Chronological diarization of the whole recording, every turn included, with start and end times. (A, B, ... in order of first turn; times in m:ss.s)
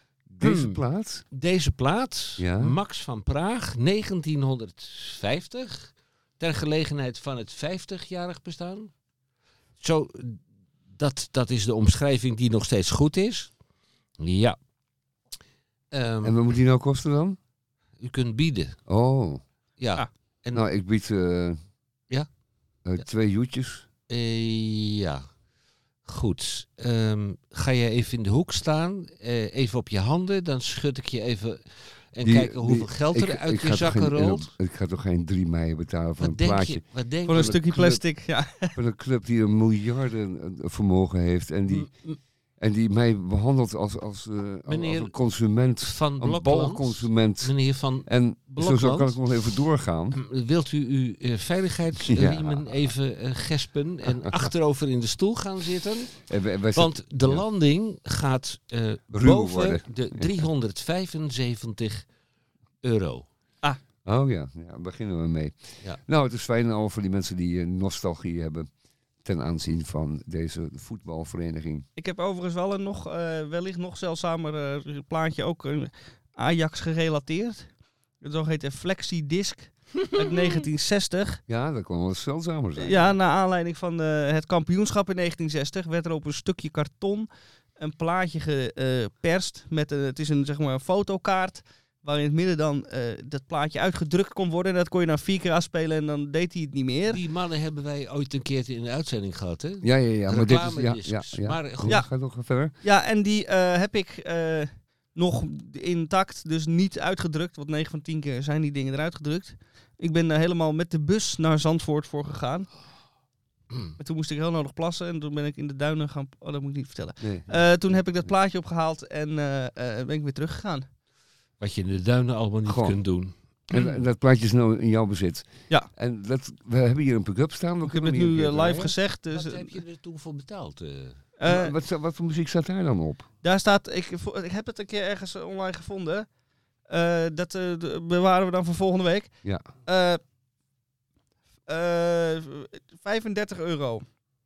0:00.2-0:01.2 A
0:00.4-0:08.9 B
0:02.4-0:02.8 A
0:09.8-0:13.5 B
0:14.2-0:14.6 B
0:15.9-0:16.4 B
0:16.2-0:17.4 A
0:18.0-0:18.8 B
0:18.9-0:19.4 A
0:19.8-0:20.6 B
0:20.5-0:21.6 A
0:22.1-0:23.0 B
0:22.8-0:23.9 A
0:24.1-0:25.3 B
0:26.0-0:34.5 B
0:32.2-0:36.8 A
0:36.2-0:38.0 B
0:37.3-0:38.7 C
0:37.4-0:38.0 A
0:38.7-0:42.0 A
0:41.7-0:42.2 B
0:42.6-0:50.2 A
0:44.6-0:49.2 B
0:50.1-1:02.1 B
0:52.1-0:52.9 A
0:54.1-0:54.4 A
0:56.2-0:57.4 A
0:59.1-1:00.4 A
1:02.8-1:03.3 B
1:04.0-1:08.7 A
1:09.2-1:11.9 A
1:12.0-1:21.4 C
1:21.5-1:23.1 A
1:22.8-1:37.2 C
1:37.1-1:42.0 B
1:39.8-1:42.8 A
1:41.9-1:42.1 C
1:42.8-1:52.8 C
1:54.0-2:00.9 C
1:57.2-1:58.3 A
2:01.6-2:03.3 B
2:02.6-2:03.0 A
2:03.7-2:08.9 A
2:07.8-2:09.8 C
2:09.3-2:11.2 B
2:11.4-2:11.7 C
2:11.4-2:13.3 A
2:13.4-2:16.3 C
2:16.8-2:20.2 C
2:21.6-2:24.0 C